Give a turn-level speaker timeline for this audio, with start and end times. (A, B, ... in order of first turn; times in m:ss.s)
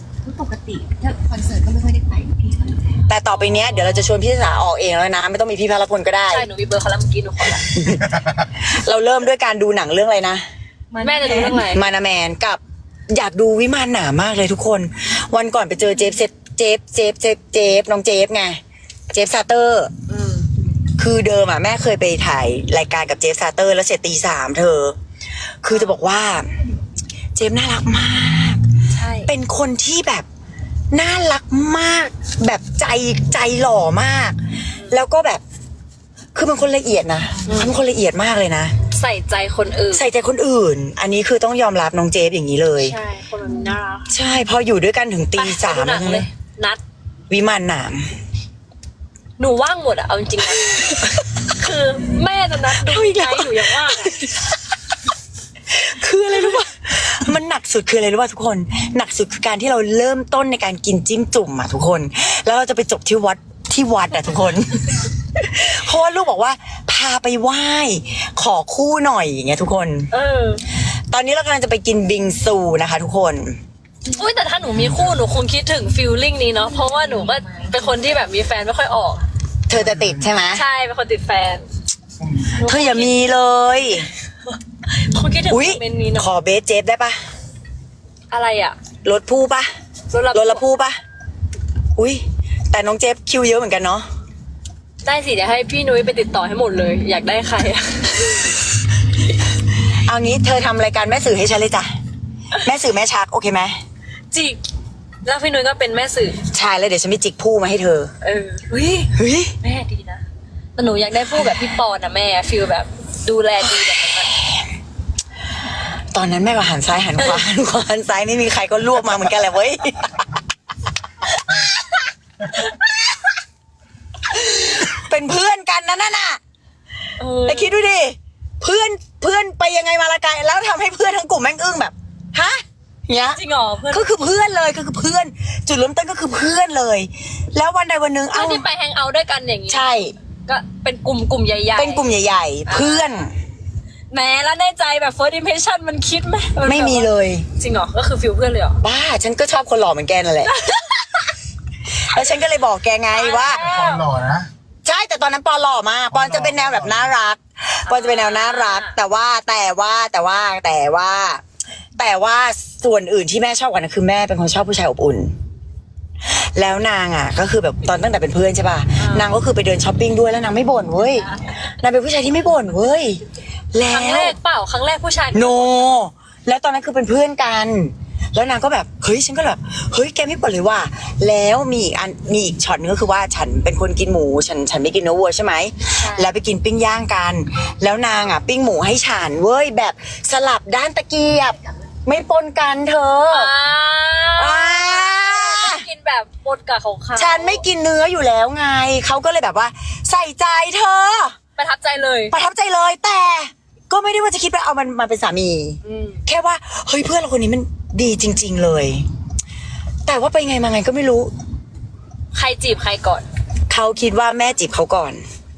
0:00.2-0:02.8 A
0:03.1-0:06.5 B
0:03.3-0:04.0 C
0:06.3-0:07.7 C
0:07.7-0:08.1 B
0:08.6-0:10.4 B
0:10.9-0:11.7 A
0:11.0-0:11.8 C
0:11.4-0:18.6 B
0:19.1-0:19.9 B
0:20.1-0:20.5 A
0:21.0-0:25.0 B
0:25.6-0:26.5 B
0:27.3-0:28.6 B
0:28.9-0:29.3 C
0:29.2-0:30.2 B
0:30.9-0:34.4 B
0:34.9-0:35.4 B
0:36.3-0:38.7 B
0:37.4-0:37.8 C
0:38.9-0:40.0 C
0:39.9-0:43.0 B
0:42.8-0:44.1 C
0:44.1-0:46.2 B
0:45.4-0:46.8 C
0:47.3-0:48.1 B
0:49.4-0:50.9 C
0:50.6-0:51.2 B
0:51.6-0:54.2 C
0:52.8-0:54.6 B
0:55.7-1:10.1 B
1:10.1-1:10.6 C
1:11.1-1:13.6 B
1:14.1-1:19.2 C
1:14.8-1:15.1 D
1:16.7-1:17.7 A
1:19.7-1:20.6 B
1:19.7-1:20.3 D
1:20.5-1:21.7 C
1:22.2-1:22.5 D
1:22.6-1:23.2 C
1:22.6-1:24.1 B
1:24.9-1:26.3 C
1:25.5-1:27.2 B
1:28.3-1:28.8 C
1:29.0-1:29.7 B
1:30.1-1:30.6 C
1:30.3-1:31.0 B
1:32.0-1:34.1 B
1:35.0-1:38.2 C
1:40.1-1:41.9 B
1:42.6-1:43.8 B
1:44.3-1:44.6 C
1:45.2-1:46.4 C
1:46.5-1:48.1 B
1:48.2-1:50.2 C
1:49.1-1:49.5 B
1:50.8-1:54.3 C
1:56.1-2:00.1 B
2:01.3-2:02.0 B
2:02.6-2:03.3 B
2:04.3-2:06.4 B
2:07.2-2:07.7 C
2:07.4-2:18.6 B
2:13.3-2:14.1 C
2:18.3-2:19.8 C
2:19.7-2:20.1 B
2:20.5-2:22.0 C
2:21.7-2:23.3 B
2:22.6-2:23.0 C
2:24.1-2:28.8 C
2:26.6-2:27.4 B
2:28.8-2:30.5 B
2:30.4-2:31.2 C
2:32.0-2:33.6 B
2:33.1-2:34.0 C
2:33.5-2:34.5 D
2:34.8-2:41.4 B
2:36.1-2:37.1 D
2:37.9-2:39.0 C
2:42.0-2:45.4 B
2:46.2-2:53.2 B
2:49.0-2:49.3 C
2:53.7-2:54.4 B
2:53.8-2:55.9 C
2:55.3-3:13.5 B
3:06.0-3:06.3 C
3:13.3-3:17.6 C
3:14.4-3:15.8 B
3:17.2-3:21.4 B
3:21.6-3:22.3 C
3:22.3-3:29.0 B
3:25.8-3:26.2 C
3:30.0-3:31.3 B
3:32.3-3:33.2 C
3:33.7-3:35.2 B